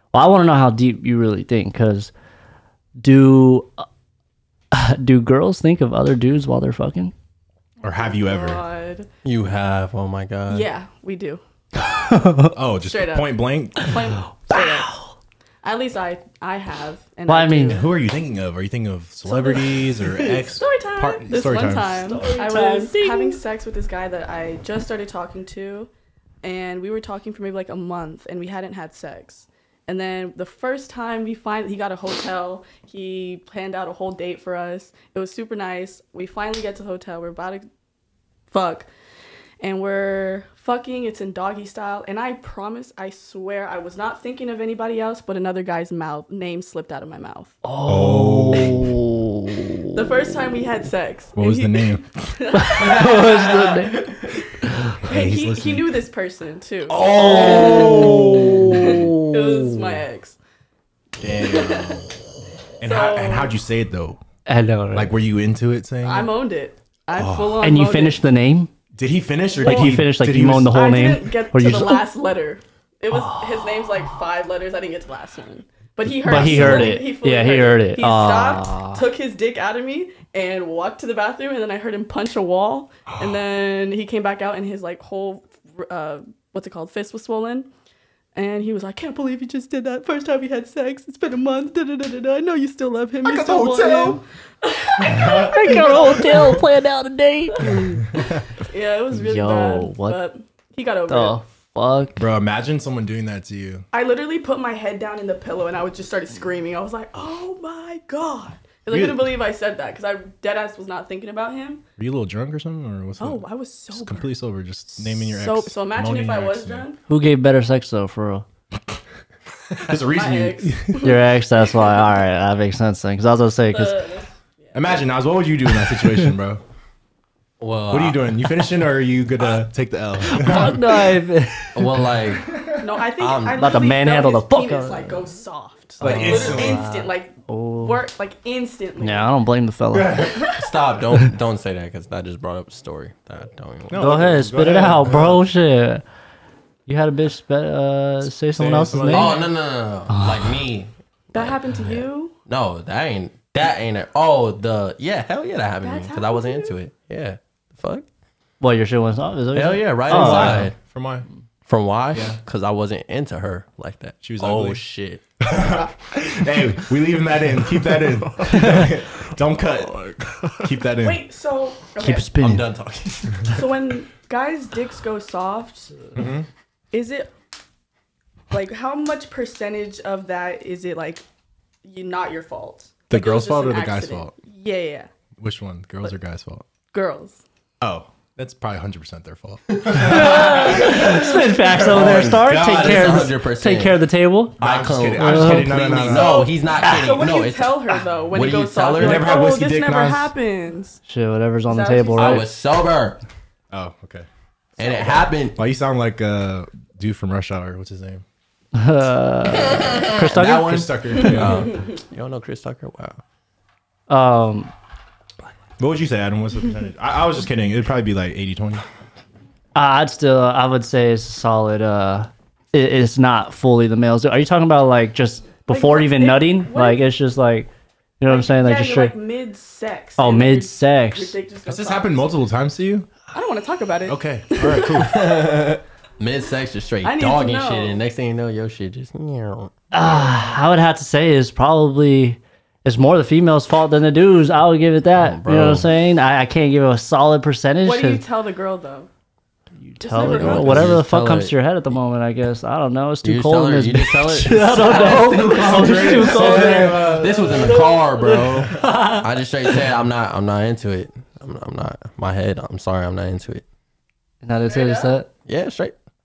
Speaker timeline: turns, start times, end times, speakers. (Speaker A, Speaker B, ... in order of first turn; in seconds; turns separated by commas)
Speaker A: 0.1-2.1, Speaker A: 3.0-3.7, Speaker A: 4.7-7.1, Speaker B: 7.8-8.6, Speaker C: 8.0-9.1, Speaker D: 9.2-10.7, Speaker C: 10.5-11.4, Speaker A: 11.9-12.5, Speaker B: 12.5-14.0, Speaker C: 12.8-14.9, Speaker A: 14.5-15.1, Speaker C: 15.6-17.9, Speaker A: 17.3-17.8, Speaker B: 17.6-22.2, Speaker C: 19.2-25.9, Speaker A: 22.1-23.4, Speaker C: 26.4-37.7, Speaker C: 38.5-38.9, Speaker C: 39.6-47.6, Speaker A: 47.6-50.0, Speaker B: 47.8-49.0, Speaker C: 49.9-53.6, Speaker B: 51.4-52.1, Speaker A: 52.5-55.0, Speaker D: 52.9-54.2, Speaker C: 55.0-60.4, Speaker B: 55.0-55.9, Speaker D: 56.9-58.1, Speaker A: 57.1-59.9, Speaker B: 57.2-59.0, Speaker B: 61.2-62.0, Speaker C: 61.4-62.0, Speaker B: 62.8-64.2, Speaker C: 62.8-63.5, Speaker A: 64.5-65.2, Speaker B: 64.9-66.3, Speaker C: 66.0-68.2, Speaker B: 67.1-67.6, Speaker A: 67.6-68.7, Speaker B: 68.9-70.7, Speaker C: 69.6-70.1, Speaker A: 69.6-72.0, Speaker C: 70.7-87.7, Speaker A: 73.1-73.8, Speaker A: 76.1-79.0, Speaker B: 76.5-76.9, Speaker C: 88.3-96.6, Speaker B: 93.2-94.2, Speaker B: 95.1-95.5, Speaker A: 95.1-98.0, Speaker C: 97.7-101.4, Speaker A: 99.1-100.2, Speaker A: 101.1-102.3, Speaker B: 102.2-103.8, Speaker C: 103.9-111.8, Speaker B: 108.9-109.3, Speaker B: 112.0-116.8, Speaker C: 113.2-114.3, Speaker C: 115.0-117.0, Speaker A: 117.1-118.4, Speaker B: 119.8-121.0, Speaker C: 120.1-121.2, Speaker A: 121.0-124.0, Speaker C: 123.7-125.1, Speaker B: 124.7-126.6, Speaker D: 127.6-128.2, Speaker B: 127.9-130.9, Speaker A: 130.3-131.9, Speaker D: 131.7-132.5, Speaker B: 132.3-132.8, Speaker C: 132.8-139.3, Speaker D: 133.2-133.6, Speaker A: 133.6-135.2, Speaker B: 136.0-136.8, Speaker D: 136.0-136.9, Speaker A: 137.5-138.0, Speaker A: 139.0-140.5, Speaker B: 139.9-140.3, Speaker D: 140.6-144.1, Speaker B: 143.9-145.4, Speaker A: 144.0-146.0, Speaker A: 146.9-149.4, Speaker B: 148.5-149.5, Speaker D: 149.1-158.1, Speaker A: 150.1-150.6, Speaker C: 151.3-152.3, Speaker C: 155.8-156.7, Speaker A: 158.6-160.7, Speaker D: 159.5-160.8, Speaker B: 160.1-161.2, Speaker D: 161.7-165.3, Speaker B: 162.1-162.4, Speaker B: 164.2-164.8, Speaker B: 165.4-171.2, Speaker C: 171.0-172.3, Speaker A: 172.0-172.7, Speaker D: 172.4-173.7, Speaker C: 173.5-176.1, Speaker B: 176.1-176.5, Speaker C: 176.9-177.3, Speaker C: 178.5-181.2, Speaker C: 181.8-185.1, Speaker B: 183.1-184.3, Speaker B: 185.4-186.6, Speaker C: 186.9-187.4, Speaker B: 187.8-193.3, Speaker A: 189.9-194.6, Speaker D: 191.8-194.0, Speaker B: 194.6-196.4, Speaker D: 194.6-199.4, Speaker A: 195.2-195.9, Speaker C: 196.0-201.0, Speaker A: 196.8-197.1, Speaker B: 199.0-200.3, Speaker A: 201.1-202.5, Speaker C: 201.7-202.4, Speaker D: 202.2-203.2, Speaker B: 203.7-204.2, Speaker C: 204.8-205.3, Speaker D: 204.8-205.6, Speaker B: 205.5-208.2, Speaker A: 208.7-211.2, Speaker D: 209.9-210.6, Speaker B: 210.3-211.7, Speaker D: 211.3-213.2, Speaker A: 214.1-214.7, Speaker B: 215.8-218.8, Speaker A: 219.7-229.1, Speaker C: 225.7-227.0, Speaker C: 228.2-232.3, Speaker A: 230.2-231.3, Speaker B: 231.7-233.1, Speaker C: 233.3-235.0, Speaker B: 234.1-235.3, Speaker D: 234.9-239.7, Speaker C: 237.0-238.0, Speaker A: 239.9-248.2, Speaker D: 245.1-245.9, Speaker C: 247.8-249.1, Speaker A: 249.8-257.1, Speaker C: 250.0-251.0, Speaker D: 250.2-251.6, Speaker D: 253.2-263.6, Speaker C: 255.0-255.3, Speaker B: 255.2-257.9, Speaker C: 257.2-258.4, Speaker A: 258.8-259.2, Speaker A: 264.4-265.3, Speaker C: 264.6-265.1, Speaker D: 265.4-265.9